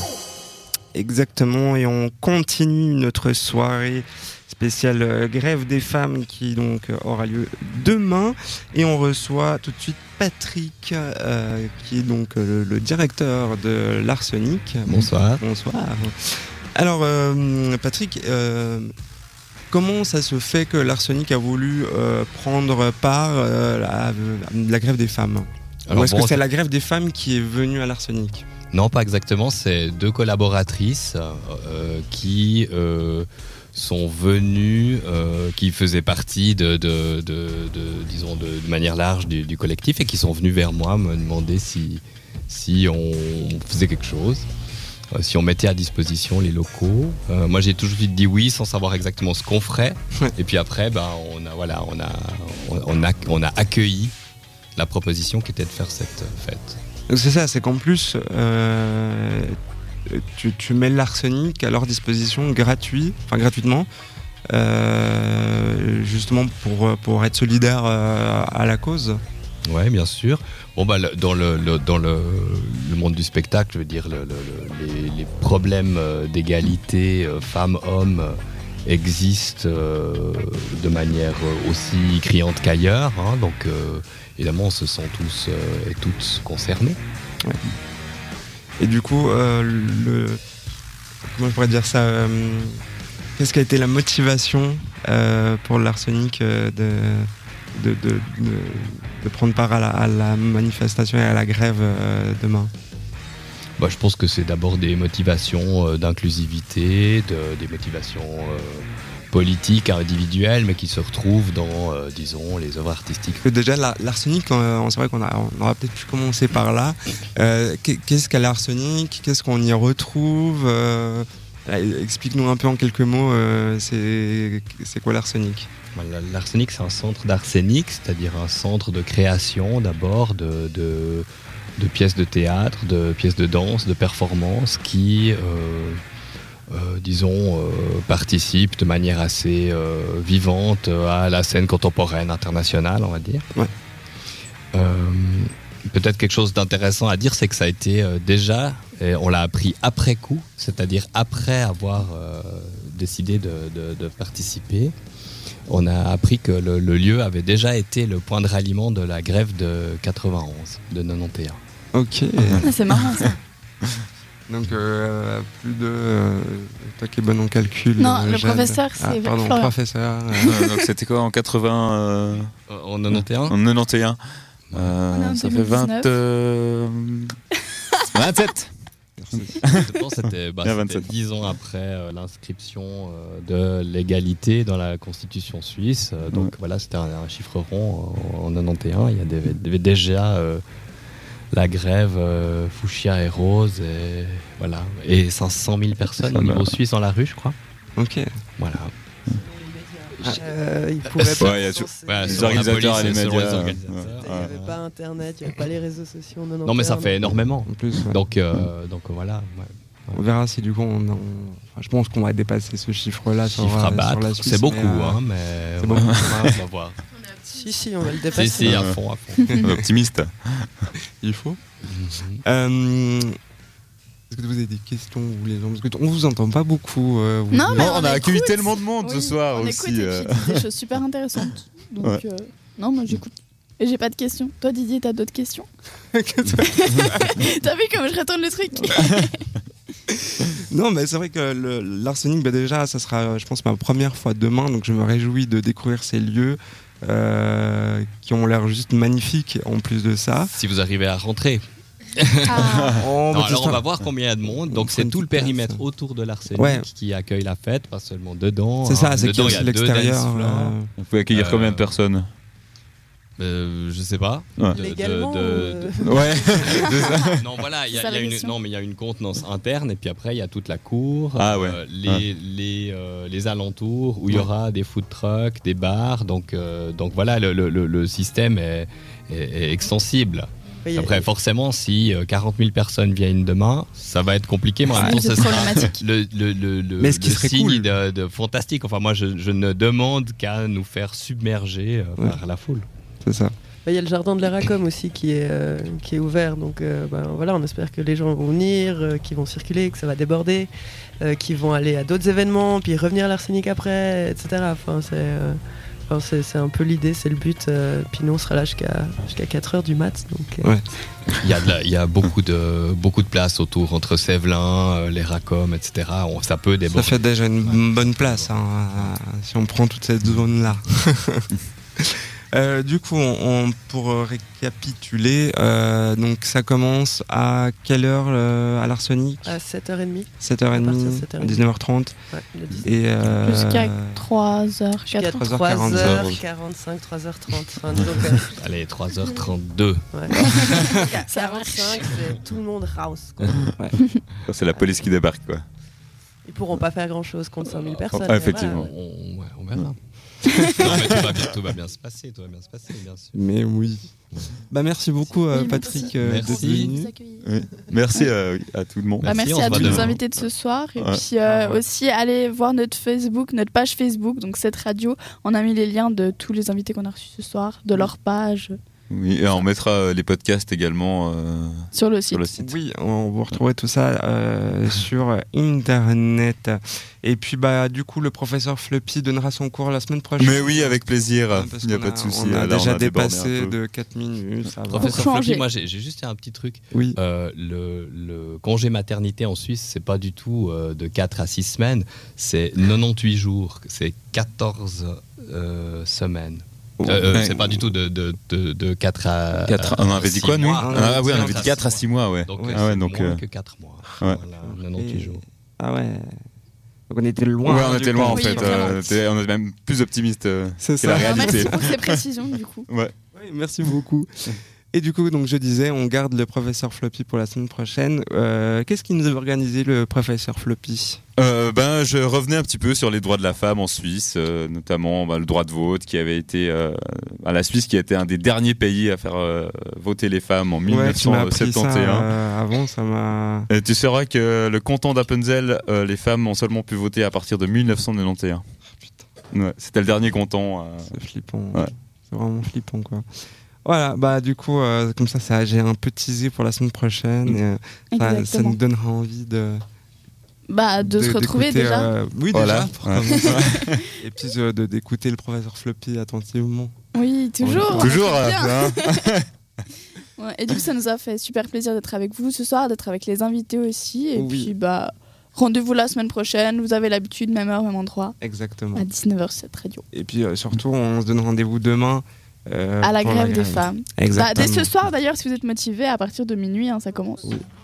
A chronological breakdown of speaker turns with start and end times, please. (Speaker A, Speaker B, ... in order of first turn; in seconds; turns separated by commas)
Speaker A: 0.9-18.9, Speaker B: 14.8-15.4, Speaker A: 19.7-28.4, Speaker B: 25.9-26.4, Speaker B: 28.7-44.5, Speaker B: 45.1-54.1, Speaker B: 54.8-56.8, Speaker A: 57.1-59.6, Speaker A: 60.1-63.9, Speaker A: 64.5-69.2, Speaker B: 69.7-87.0, Speaker A: 88.8-90.4, Speaker A: 91.3-92.8, Speaker A: 93.4-102.7, Speaker B: 103.8-113.4, Speaker A: 113.4-125.7, Speaker B: 125.9-136.0, Speaker B: 136.7-143.4, Speaker B: 144.7-154.9, Speaker B: 155.7-161.6, Speaker A: 161.9-162.7, Speaker C: 162.6-163.4, Speaker D: 162.6-163.2, Speaker A: 164.5-170.6, Speaker C: 168.0-169.7, Speaker C: 170.4-170.8, Speaker D: 170.4-172.5, Speaker B: 172.7-173.6, Speaker D: 173.1-174.2, Speaker D: 174.7-177.3, Speaker C: 175.1-176.1, Speaker D: 178.1-178.7, Speaker A: 179.2-179.6, Speaker D: 179.3-179.9, Speaker B: 179.7-190.6, Speaker D: 180.6-181.1, Speaker B: 191.5-197.6, Speaker D: 196.3-196.8, Speaker A: 198.0-198.3, Speaker B: 198.6-198.9, Speaker E: 199.3-207.2, Speaker D: 201.1-204.5, Speaker B: 202.1-204.8, Speaker B: 206.6-210.2, Speaker A: 207.6-208.2, Speaker A: 210.1-215.2, Speaker B: 213.4-217.0, Speaker A: 215.8-216.5, Speaker D: 216.0-216.4, Speaker E: 217.3-218.8, Speaker B: 218.3-219.5, Speaker D: 218.6-219.0, Speaker A: 219.5-219.8, Speaker D: 219.6-220.9, Speaker A: 221.2-221.6, Speaker B: 221.9-222.4, Speaker A: 222.4-223.3, Speaker A: 224.3-227.9, Speaker C: 227.5-235.7, Speaker D: 227.7-230.6, Speaker A: 236.1-237.4, Speaker C: 236.6-239.4, Speaker D: 238.8-239.3, Speaker A: 240.4-250.5, Speaker B: 250.5-251.6, Speaker B: 252.1-260.7, Speaker C: 252.5-253.0, Speaker D: 252.7-253.1, Speaker A: 253.0-253.9, Speaker A: 254.7-255.8, Speaker A: 256.5-256.9, Speaker A: 258.8-260.9, Speaker D: 261.0-262.3, Speaker B: 261.3-261.9, Speaker B: 263.4-265.9, Speaker E: 264.7-267.1, Speaker D: 266.0-267.4, Speaker C: 267.1-268.5, Speaker B: 267.4-292.9, Speaker D: 271.4-272.2, Speaker E: 280.8-281.3, Speaker C: 284.9-286.0, Speaker A: 287.0-287.9, Speaker A: 293.2-293.5, Speaker E: 293.8-310.7, Speaker A: 310.6-310.9, Speaker B: 311.4-319.1, Speaker A: 316.9-321.5, Speaker A: 322.0-329.6, Speaker E: 329.4-331.7, Speaker A: 330.4-332.1, Speaker E: 332.3-332.9, Speaker A: 332.8-334.2, Speaker C: 333.4-335.4, Speaker E: 335.1-338.6, Speaker A: 335.3-336.3, Speaker D: 335.9-336.4, Speaker B: 338.6-340.0, Speaker E: 340.1-343.6, Speaker D: 340.3-341.1, Speaker C: 340.5-342.1, Speaker D: 344.4-345.6, Speaker E: 344.8-345.1, Speaker E: 346.4-348.9, Speaker D: 348.1-348.9, Speaker B: 348.6-350.0, Speaker B: 350.6-353.4, Speaker D: 350.9-351.2, Speaker A: 353.3-354.1, Speaker A: 354.7-357.1, Speaker C: 355.5-357.4, Speaker B: 356.2-356.9, Speaker D: 357.4-360.2, Speaker B: 359.2-360.2, Speaker C: 359.2-368.8, Speaker A: 359.6-360.1, Speaker D: 361.0-361.2, Speaker A: 361.4-361.8, Speaker D: 369.1-372.7, Speaker C: 371.9-372.5, Speaker A: 372.6-385.2, Speaker D: 380.4-383.7, Speaker C: 384.9-385.7, Speaker B: 384.9-405.4, Speaker A: 386.9-387.2, Speaker A: 397.0-397.4, Speaker D: 397.3-397.9, Speaker D: 399.7-403.4, Speaker A: 400.8-401.9, Speaker A: 402.5-402.9, Speaker A: 404.6-406.3, Speaker A: 407.1-409.1, Speaker D: 407.6-412.2, Speaker C: 408.2-409.2, Speaker A: 410.8-411.9, Speaker C: 411.1-412.9, Speaker D: 412.9-413.1, Speaker A: 413.3-414.3, Speaker A: 414.9-421.2, Speaker D: 421.4-432.3, Speaker A: 430.9-433.7, Speaker D: 433.7-438.6, Speaker D: 439.5-441.1, Speaker A: 441.1-443.2, Speaker A: 443.8-449.8, Speaker C: 448.1-448.8, Speaker C: 450.7-452.1, Speaker A: 451.0-456.9, Speaker D: 452.5-454.0, Speaker C: 453.2-453.9, Speaker C: 457.1-459.3, Speaker A: 457.6-458.1, Speaker D: 457.9-459.4, Speaker C: 460.4-468.3, Speaker A: 464.4-464.7, Speaker A: 468.4-469.1, Speaker C: 468.9-470.0, Speaker A: 470.1-474.9, Speaker C: 473.0-477.5